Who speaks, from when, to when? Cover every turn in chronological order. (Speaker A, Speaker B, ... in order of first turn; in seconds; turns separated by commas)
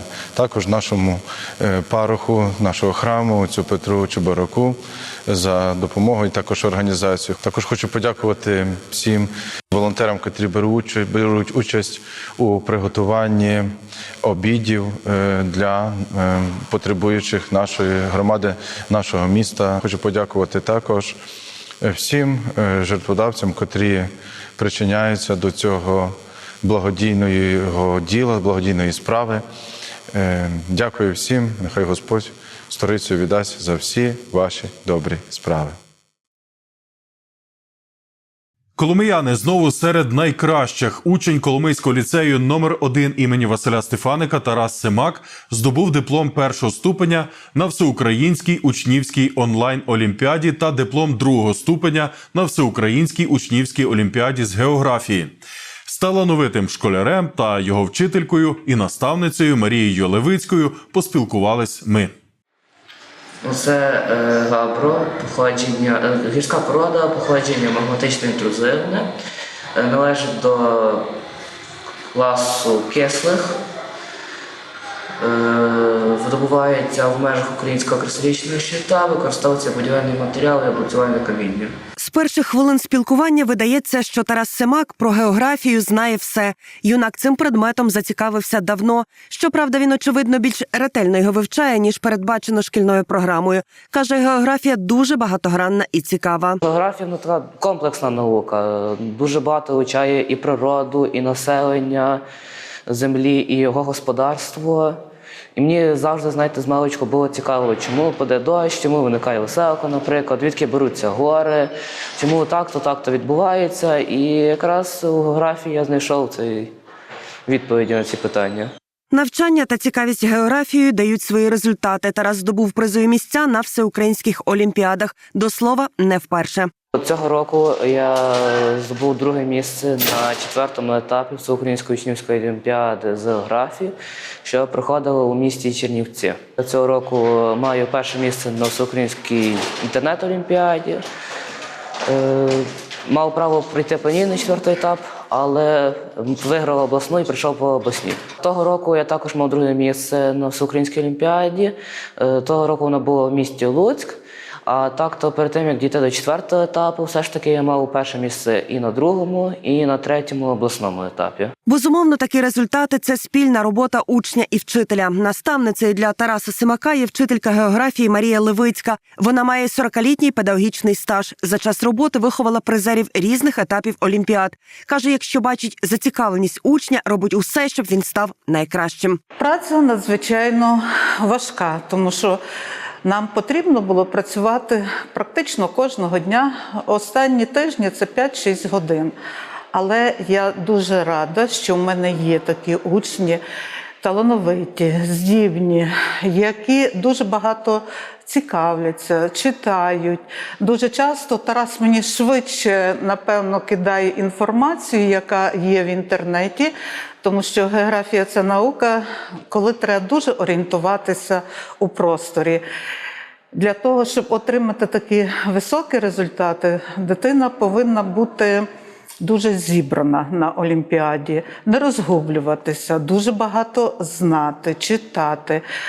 Speaker A: 0.3-21.2, Speaker A: 21.8-29.4, Speaker A: 30.1-35.8, Speaker B: 38.8-55.3, Speaker B: 55.9-62.1, Speaker C: 63.4-69.1, Speaker C: 69.8-71.1, Speaker C: 72.1-73.6, Speaker C: 75.2-81.8, Speaker D: 82.0-96.6, Speaker C: 96.6-102.2, Speaker C: 102.9-105.0, Speaker C: 105.5-116.7, Speaker C: 117.5-118.7, Speaker D: 119.1-126.7, Speaker C: 126.9-141.0, Speaker C: 142.1-161.5, Speaker D: 161.7-179.2, Speaker E: 179.4-182.4, Speaker E: 183.0-189.2, Speaker E: 189.7-193.4, Speaker E: 194.0-212.6, Speaker E: 213.5-218.7, Speaker E: 219.2-225.6